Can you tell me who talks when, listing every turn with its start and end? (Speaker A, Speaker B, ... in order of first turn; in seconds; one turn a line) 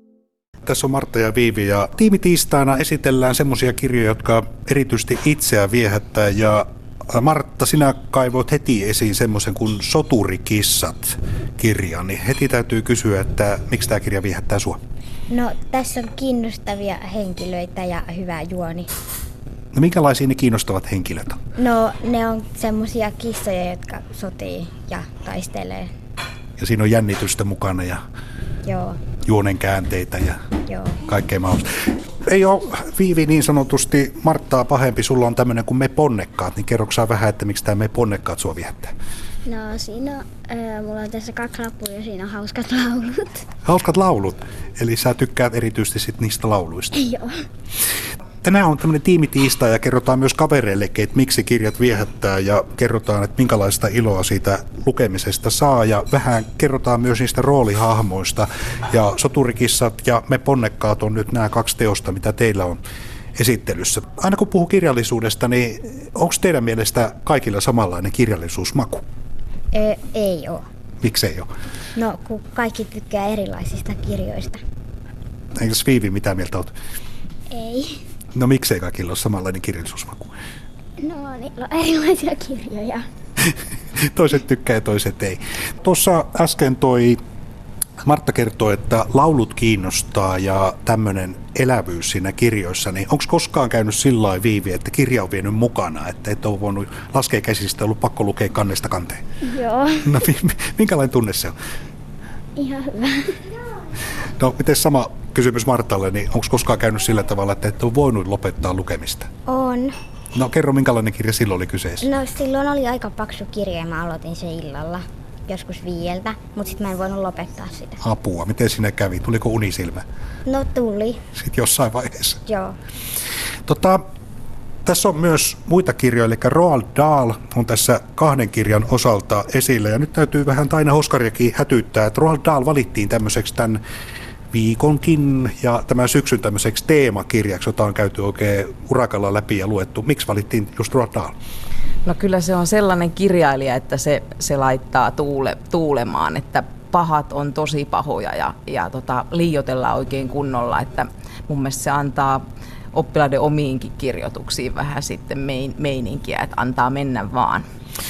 Speaker A: 0.7-14.8
Speaker B: 15.3-18.9
Speaker A: 19.7-21.4
Speaker B: 21.6-25.9
Speaker A: 26.6-28.0
Speaker B: 28.6-29.0
Speaker A: 29.2-30.4
Speaker B: 30.7-31.0
Speaker A: 31.1-31.7
Speaker A: 32.2-38.9
Speaker B: 39.5-43.3
Speaker A: 43.6-46.9
Speaker B: 47.0-47.3
Speaker A: 48.4-62.8
Speaker A: 63.4-69.0
Speaker B: 69.7-70.7
Speaker A: 71.0-71.5
Speaker B: 72.0-74.6
Speaker A: 75.6-76.7
Speaker B: 77.5-78.0
Speaker A: 78.3-80.3
Speaker B: 81.0-83.0
Speaker A: 84.0-87.2
Speaker A: 88.0-99.2
Speaker B: 99.6-100.0
Speaker A: 100.0-101.6
Speaker B: 102.6-103.3
Speaker A: 104.4-109.3
Speaker B: 109.5-110.0
Speaker A: 110.3-112.1
Speaker B: 112.0-118.0
Speaker A: 118.0-120.0
Speaker B: 120.5-121.2
Speaker A: 121.3-122.4
Speaker B: 122.5-122.8
Speaker A: 123.7-124.0
Speaker A: 124.9-133.8
Speaker A: 134.5-141.3
Speaker C: 142.1-152.4
Speaker C: 152.9-157.7